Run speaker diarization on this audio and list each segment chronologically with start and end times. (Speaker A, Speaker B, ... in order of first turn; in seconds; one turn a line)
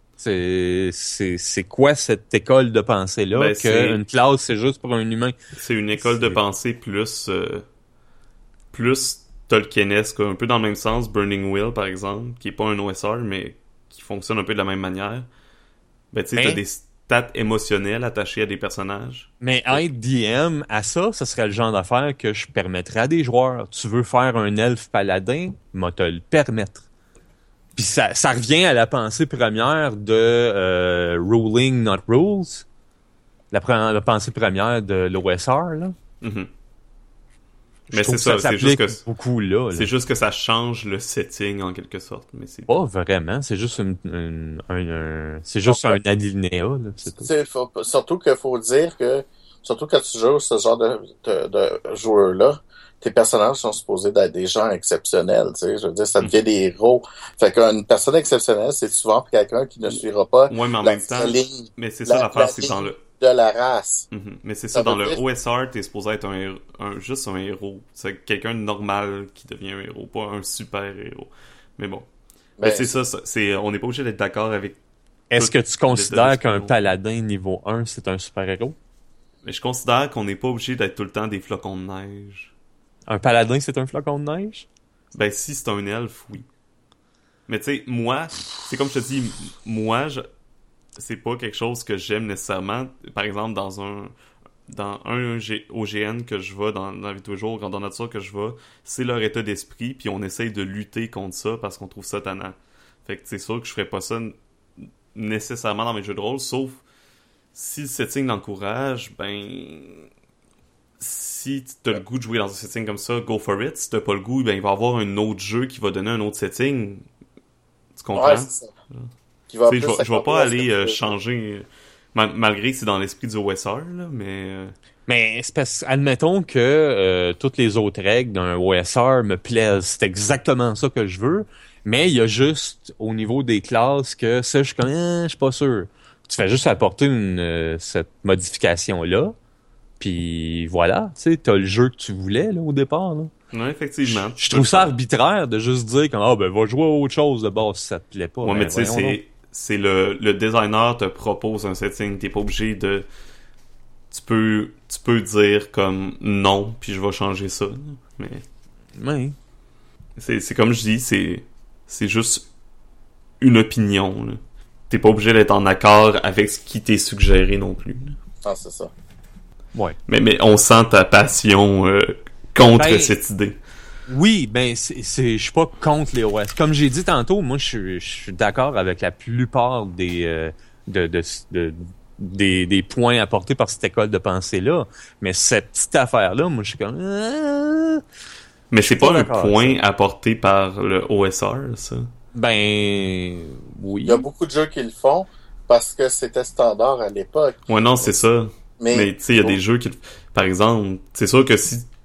Speaker A: 0.2-5.4
Speaker B: 3.3-4.0
Speaker B: 5.6-7.7
Speaker A: 6.0-6.4
Speaker B: 8.7-15.3
Speaker B: 16.1-19.8
Speaker A: 16.4-16.6
Speaker A: 19.4-26.9
Speaker A: 27.8-32.7
Speaker A: 33.5-36.0
Speaker B: 36.2-36.5
Speaker A: 37.9-39.9
Speaker B: 37.9-39.0
Speaker B: 39.7-42.7
Speaker A: 42.7-47.3
Speaker C: 45.7-46.0
Speaker C: 47.2-64.1
Speaker B: 60.5-63.0
Speaker B: 64.1-72.1
Speaker C: 64.7-65.2
Speaker C: 72.6-72.9
Speaker B: 72.6-74.8
Speaker A: 75.3-78.8
Speaker B: 75.4-76.7
Speaker B: 79.4-82.5
Speaker A: 83.1-84.7
Speaker B: 85.1-86.5
Speaker B: 87.5-90.2
Speaker B: 91.0-94.1
Speaker B: 94.7-104.4
Speaker B: 105.1-106.8
Speaker B: 107.5-110.1
Speaker B: 111.0-117.1
Speaker B: 118.0-119.1
Speaker C: 118.1-118.7
Speaker C: 119.5-121.1
Speaker B: 119.7-124.8
Speaker A: 125.1-139.3
Speaker A: 140.0-143.3
Speaker B: 143.5-144.9
Speaker A: 144.1-149.2
Speaker B: 148.4-153.1
Speaker B: 154.1-158.4
Speaker A: 159.0-159.3
Speaker B: 160.2-162.5
Speaker B: 163.4-168.2
Speaker C: 168.4-168.9
Speaker B: 170.1-173.6
Speaker A: 172.6-173.2
Speaker A: 174.1-188.0
Speaker B: 188.7-192.1
Speaker A: 188.8-189.8
Speaker A: 192.3-194.2
Speaker C: 194.0-198.1
Speaker B: 197.7-201.9
Speaker C: 198.8-199.6